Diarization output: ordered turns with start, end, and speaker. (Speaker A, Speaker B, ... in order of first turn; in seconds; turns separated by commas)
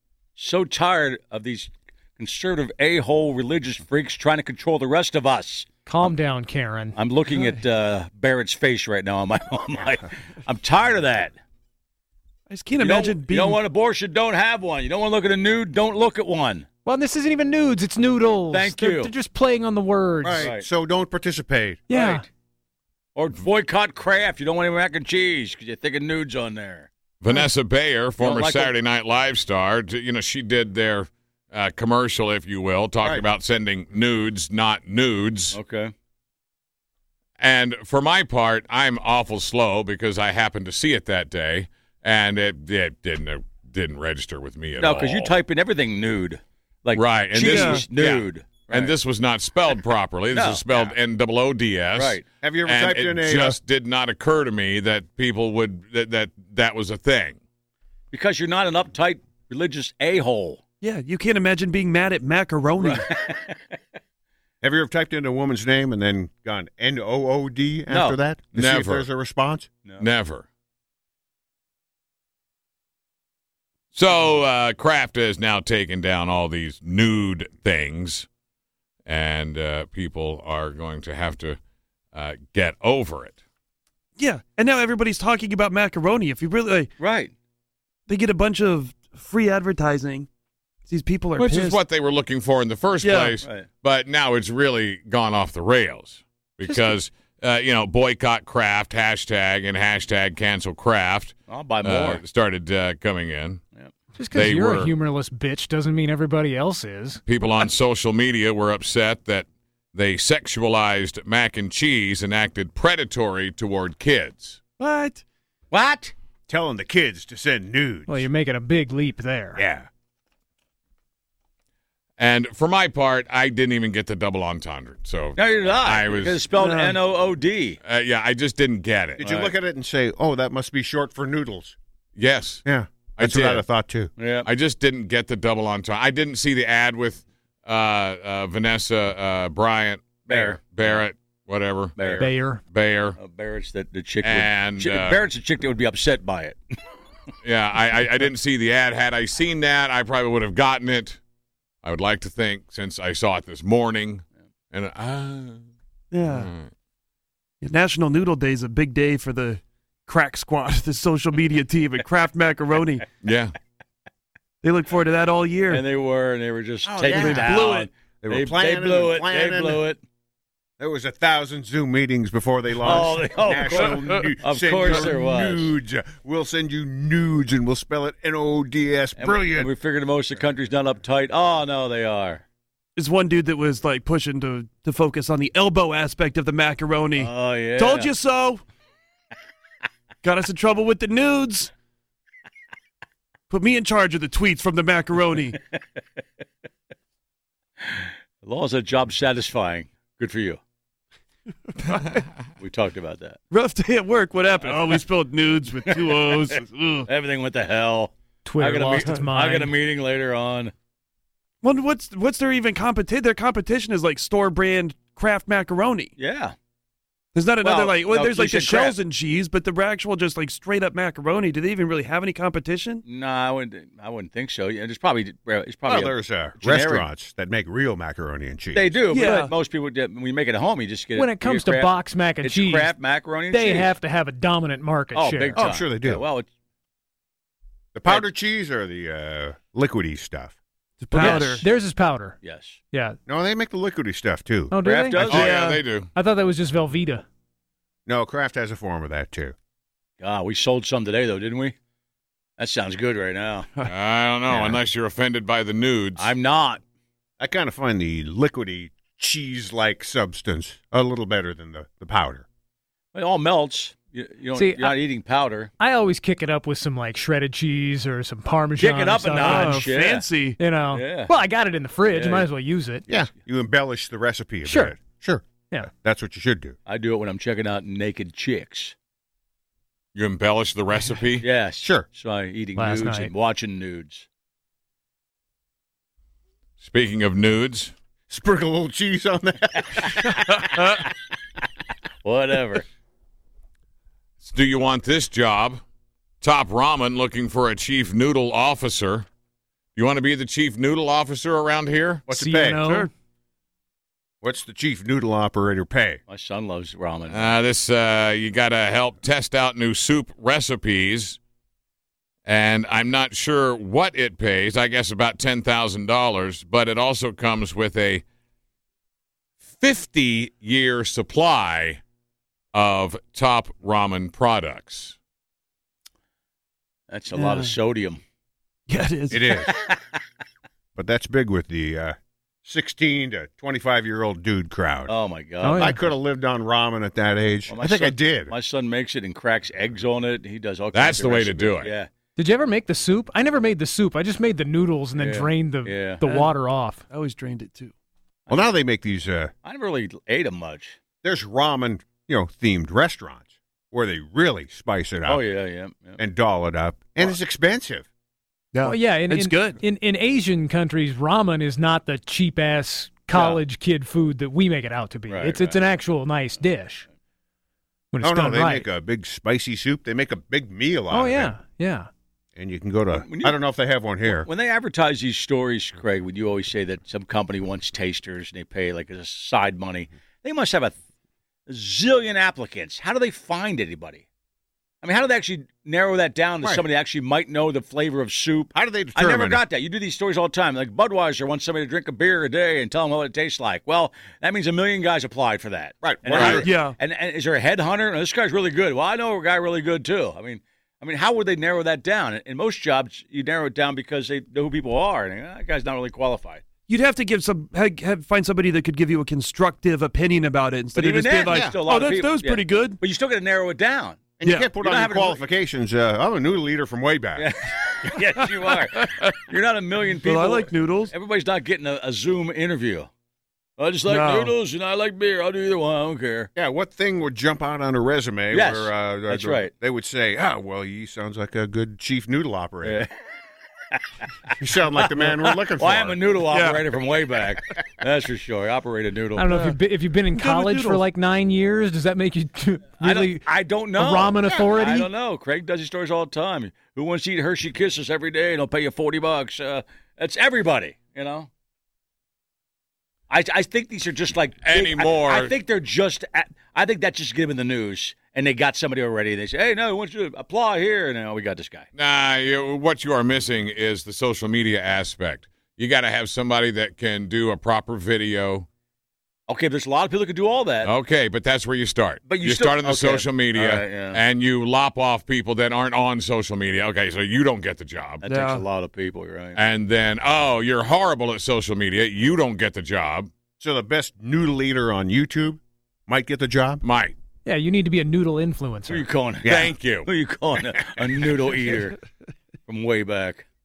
Speaker A: 0.4-5.7, Speaker B: 5.8-7.0, Speaker A: 6.9-11.3, Speaker C: 7.3-7.6, Speaker C: 12.5-13.6, Speaker A: 12.8-16.7, Speaker B: 16.8-20.5, Speaker A: 18.5-19.1, Speaker D: 20.2-21.8, Speaker A: 20.4-20.6, Speaker B: 21.9-22.2, Speaker A: 21.9-22.2, Speaker A: 23.1-26.9, Speaker E: 27.2-35.6, Speaker A: 28.2-28.7, Speaker A: 35.5-35.9, Speaker E: 37.4-45.4, Speaker A: 44.8-49.0, Speaker E: 46.9-57.4, Speaker C: 47.4-47.8, Speaker A: 50.3-50.9, Speaker A: 51.9-52.2, Speaker D: 52.4-53.6, Speaker A: 58.1-60.6, Speaker C: 60.8-63.1, Speaker A: 62.8-63.6, Speaker D: 64.6-69.7, Speaker A: 67.9-68.2, Speaker E: 68.5-69.0, Speaker E: 70.0-70.5, Speaker E: 73.9-78.3, Speaker E: 79.0-81.6, Speaker E: 82.1-83.4, Speaker C: 84.2-86.9, Speaker A: 87.0-87.3, Speaker C: 88.1-90.3, Speaker C: 90.9-91.8, Speaker E: 91.4-103.6, Speaker C: 93.0-93.4, Speaker A: 93.4-93.7, Speaker B: 96.6-96.9, Speaker A: 101.5-102.2, Speaker B: 104.2-107.2, Speaker E: 104.3-104.9, Speaker E: 107.2-114.6, Speaker C: 114.8-115.2, Speaker A: 115.7-116.1, Speaker D: 116.5-118.3, Speaker B: 118.1-119.6, Speaker D: 119.5-119.9, Speaker E: 122.2-126.4, Speaker A: 125.3-127.8, Speaker C: 126.5-127.0, Speaker E: 127.8-129.2, Speaker D: 129.2-131.8, Speaker A: 129.2-129.5, Speaker E: 132.2-132.6, Speaker D: 132.6-134.1, Speaker E: 133.2-133.6, Speaker A: 134.2-134.5, Speaker E: 134.4-143.2, Speaker A: 140.3-141.0, Speaker A: 142.0-142.3, Speaker B: 142.2-142.6, Speaker A: 143.2-146.6, Speaker E: 144.2-145.2, Speaker E: 147.4-151.2, Speaker E: 151.8-155.6, Speaker C: 156.1-156.5, Speaker E: 156.3-156.7, Speaker C: 157.6-163.1, Speaker E: 163.2-163.6, Speaker C: 164.6-165.8, Speaker A: 165.7-170.0, Speaker D: 166.8-167.6, Speaker C: 167.1-167.9, Speaker D: 168.2-169.8, Speaker D: 170.8-179.7, Speaker A: 172.8-175.7, Speaker A: 179.2-182.4, Speaker C: 182.9-188.6, Speaker A: 187.2-188.1, Speaker C: 190.2-191.7, Speaker C: 193.5-195.6, Speaker A: 197.8-200.6, Speaker C: 201.8-202.1, Speaker A: 202.6-203.4, Speaker C: 203.5-207.1, Speaker A: 205.8-210.7, Speaker B: 208.4-209.7, Speaker C: 211.6-216.1, Speaker A: 216.2-216.5, Speaker C: 217.3-223.0, Speaker A: 217.6-219.0, Speaker A: 223.0-227.1, Speaker D: 225.9-229.0, Speaker A: 228.7-231.9, Speaker C: 229.1-229.5, Speaker B: 231.1-232.9, Speaker A: 232.4-233.9, Speaker B: 233.5-235.6, Speaker A: 235.1-236.5, Speaker D: 235.5-236.2, Speaker D: 237.9-240.6, Speaker C: 241.0-241.6, Speaker B: 241.1-242.3, Speaker A: 241.1-241.7, Speaker A: 242.4-242.8, Speaker B: 242.9-243.2, Speaker D: 243.2-244.7, Speaker B: 244.7-245.2, Speaker A: 244.8-245.6, Speaker E: 245.2-246.1, Speaker C: 245.2-245.8, Speaker B: 246.1-247.2, Speaker D: 248.1-249.5, Speaker A: 250.2-251.7, Speaker A: 252.6-253.7, Speaker E: 253.8-256.3, Speaker A: 254.5-254.8, Speaker A: 256.2-256.8, Speaker D: 257.4-262.4, Speaker A: 263.1-265.7, Speaker B: 264.5-265.0, Speaker B: 265.8-269.9, Speaker A: 268.8-270.3, Speaker C: 269.4-270.6, Speaker B: 270.6-273.1, Speaker A: 270.9-271.3, Speaker A: 272.1-272.5, Speaker D: 273.1-276.8, Speaker B: 274.6-274.9, Speaker A: 276.9-278.9, Speaker E: 280.1-281.4, Speaker A: 281.4-284.2, Speaker D: 281.8-282.1, Speaker B: 282.8-283.3, Speaker E: 286.8-287.9, Speaker D: 288.3-291.0, Speaker A: 292.2-292.8, Speaker E: 294.4-295.8, Speaker E: 296.4-299.2, Speaker E: 299.9-302.2, Speaker D: 302.3-302.8, Speaker B: 302.3-303.1, Speaker C: 302.8-303.1, Speaker D: 304.4-306.2, Speaker A: 306.3-307.6, Speaker E: 307.3-311.4, Speaker E: 312.4-318.2, Speaker E: 319.7-322.0, Speaker E: 322.7-325.1, Speaker A: 327.1-328.2, Speaker C: 327.3-327.7, Speaker C: 328.9-329.5, Speaker D: 329.3-329.7, Speaker A: 329.7-330.0, Speaker D: 330.9-335.1, Speaker A: 335.1-336.0, Speaker B: 335.6-336.0, Speaker D: 335.7-338.5, Speaker A: 337.7-342.1, Speaker E: 340.9-341.9, Speaker B: 342.4-347.0, Speaker A: 345.2-346.2, Speaker C: 346.2-346.5, Speaker C: 347.1-347.9, Speaker A: 348.5-348.8, Speaker D: 348.5-349.5, Speaker A: 349.6-351.0, Speaker D: 351.2-355.4, Speaker A: 355.2-356.2, Speaker D: 356.2-358.1, Speaker C: 358.7-359.8, Speaker B: 358.8-367.1, Speaker A: 363.3-363.6, Speaker A: 365.3-365.8, Speaker B: 368.1-368.9, Speaker D: 368.2-371.5, Speaker B: 371.1-372.1, Speaker D: 372.5-374.5, Speaker A: 373.1-373.6, Speaker A: 374.2-380.9, Speaker A: 381.7-384.2, Speaker A: 385.0-406.6, Speaker D: 388.7-389.6, Speaker D: 396.0-396.7, Speaker E: 396.3-396.6, Speaker C: 396.4-396.9, Speaker C: 406.9-413.0, Speaker A: 410.9-415.4, Speaker D: 411.5-411.8, Speaker D: 414.4-417.5, Speaker C: 414.4-414.7, Speaker A: 417.4-423.1, Speaker C: 418.7-419.3, Speaker C: 420.2-421.1, Speaker A: 423.8-426.5, Speaker C: 424.1-424.5, Speaker D: 426.5-433.0, Speaker A: 428.5-429.7, Speaker A: 432.8-433.1, Speaker D: 434.6-436.2, Speaker A: 435.0-439.5, Speaker C: 436.5-436.9, Speaker B: 439.4-445.1, Speaker C: 439.5-439.8, Speaker C: 440.3-441.0, Speaker A: 443.0-451.5, Speaker A: 453.3-461.9, Speaker E: 454.6-455.5, Speaker E: 461.9-468.6, Speaker A: 469.5-470.9, Speaker E: 470.8-478.2, Speaker A: 472.2-474.2, Speaker A: 478.2-479.6, Speaker C: 478.2-478.6, Speaker E: 479.6-483.3, Speaker D: 483.6-486.8, Speaker E: 486.8-487.1, Speaker B: 487.4-489.0, Speaker A: 488.9-492.0, Speaker D: 489.4-489.7, Speaker E: 489.4-490.1, Speaker A: 492.7-493.4